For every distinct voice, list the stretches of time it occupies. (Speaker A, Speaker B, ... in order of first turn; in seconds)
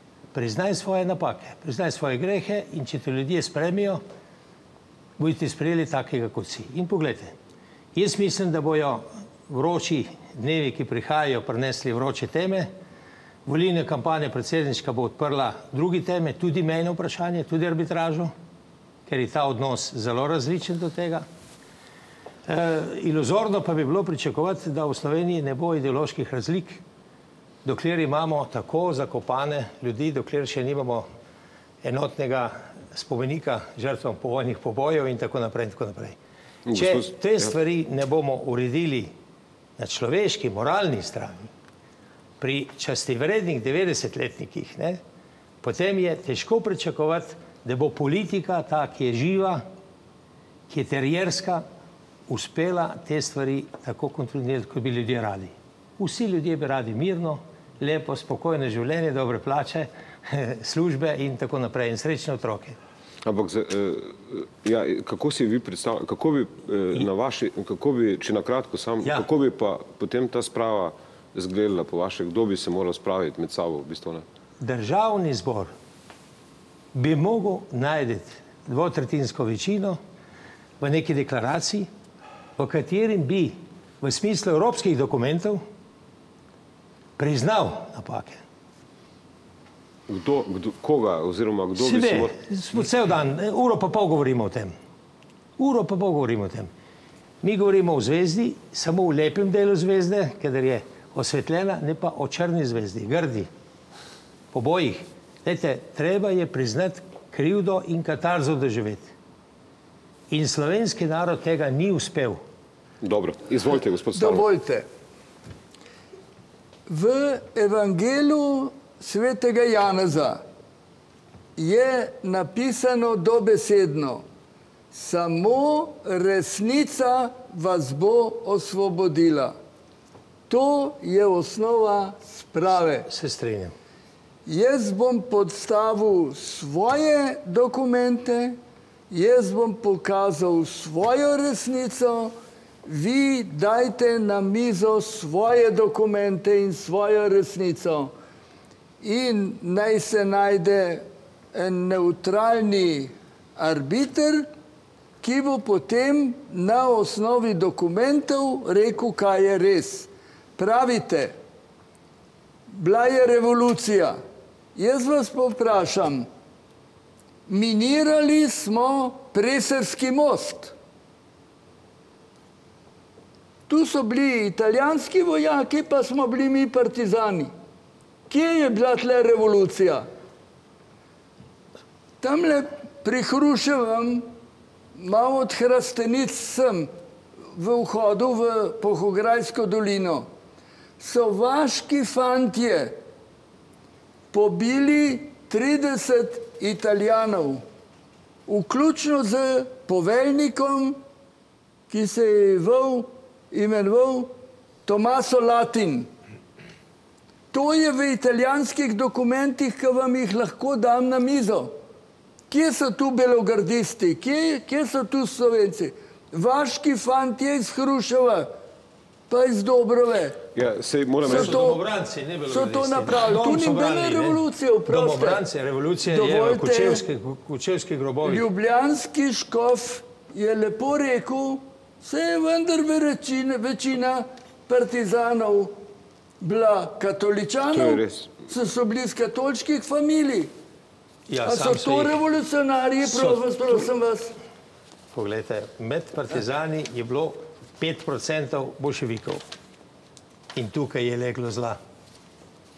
Speaker A: 0.3-4.0, 5.2-7.3, 7.9-12.7, 13.4-18.3, 19.1-21.2, 22.5-26.8, 27.6-31.1, 31.8-36.2, 36.7-39.1, 39.8-41.5, 42.4-45.0, 45.6-49.6, 50.7-51.6, 52.3-62.8, 69.0-69.3, 74.6-75.7, 76.9-80.0, 80.8-81.9, 82.6-85.6, 87.2-88.4, 91.8-94.7, 95.6-96.7, 97.4-103.5, 104.5-109.1, 110.3-112.4, 133.1-133.7, 221.3-228.5, 241.3-242.2, 243.0-243.8, 245.1-249.4, 250.5-251.8
Speaker B: 36.7-37.5, 63.2-74.2, 90.1-92.3, 113.0-114.5, 220.5-221.6, 237.7-238.3
Speaker C: 114.1-114.8, 116.9-120.4, 121.5-124.2, 124.9-129.5, 130.5-133.1, 134.4-138.6, 139.1-142.3, 142.8-148.1, 149.0-154.5, 155.2-161.3, 162.7-164.2, 164.7-166.3, 167.5-170.7, 173.7-177.5, 178.3-180.1, 182.2-184.3, 184.9-186.9, 187.5-190.3, 191.0-193.0, 194.3-197.6, 198.5-201.0, 201.9-204.3, 204.8-206.1, 207.5-211.7, 212.5-218.5, 219.3-220.4, 221.2-221.8, 222.5-225.4, 226.1-227.0, 228.2-235.7, 236.4-240.5, 241.4-244.3